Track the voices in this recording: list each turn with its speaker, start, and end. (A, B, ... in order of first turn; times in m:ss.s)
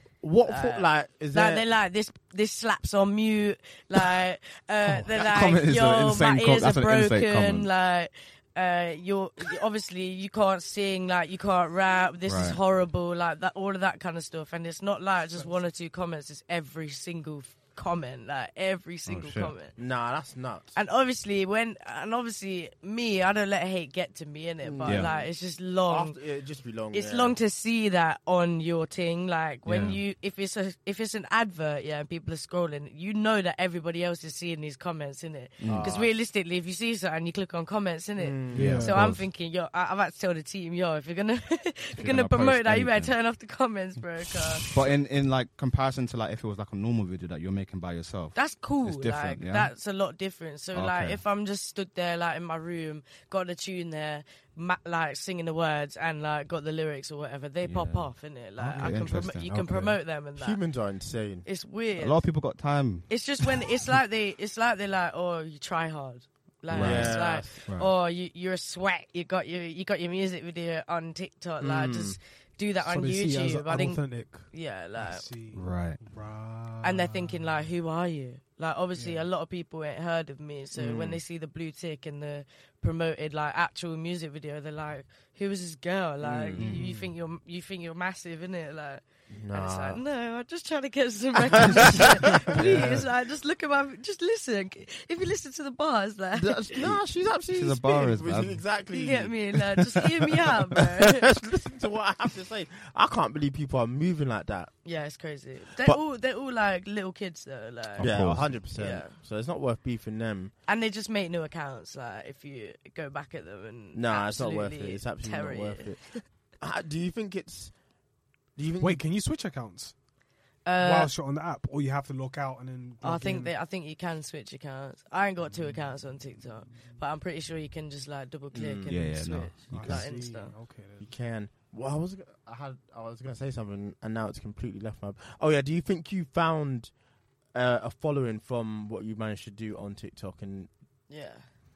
0:00.2-0:01.7 A
0:00.5-0:19.8 B
0:05.0-0:07.7 C
0:12.3-0:12.6 C
0:19.1-0:19.6 C
0:19.8-0:20.8 A
0:20.8-0:26.2 B
0:24.6-0:25.3 A
0:25.9-0:27.4 A
0:26.9-0:44.7 B
0:29.6-0:30.0 C
0:35.6-0:35.9 C
0:35.6-0:36.1 A
0:38.2-0:38.8 A
0:38.5-0:39.3 C
0:38.5-0:39.0 D
0:42.0-0:43.2 C
0:44.6-0:49.7 C
0:48.4-1:00.6 B
0:50.7-0:51.2 C
0:57.6-1:00.0 C
1:00.4-1:01.4 A
1:01.4-1:02.3 B
1:02.0-1:03.1 C
1:03.1-1:15.3 B
1:06.7-1:07.6 A
1:06.7-1:07.9 C
1:11.6-1:12.2 A
1:12.8-1:17.6 D
1:15.5-1:16.0 C
1:16.8-1:36.6 B
1:19.0-1:19.3 D
1:20.7-1:21.2 A
1:26.2-1:26.8 A
1:26.6-1:26.9 C
1:26.8-1:27.1 D
1:29.3-1:30.0 A
1:31.5-1:33.0 A
1:36.4-1:39.6 A
1:37.5-1:38.6 C
1:38.9-1:41.3 B
1:40.8-1:44.7 A
1:44.8-1:49.1 B
1:48.0-1:48.6 C
1:48.0-1:50.5 A
1:50.7-1:56.2 B
1:53.9-1:57.8 A
1:58.6-1:59.0 A
1:58.8-2:00.0 D
2:00.6-2:01.1 B
2:00.8-2:03.5 D
2:03.0-2:10.6 B
2:05.4-2:07.0 D
2:08.5-2:09.1 A
2:08.9-2:10.1 C
2:09.6-2:11.1 D
2:11.0-2:16.9 A
2:17.5-2:20.7 A
2:21.1-2:21.4 B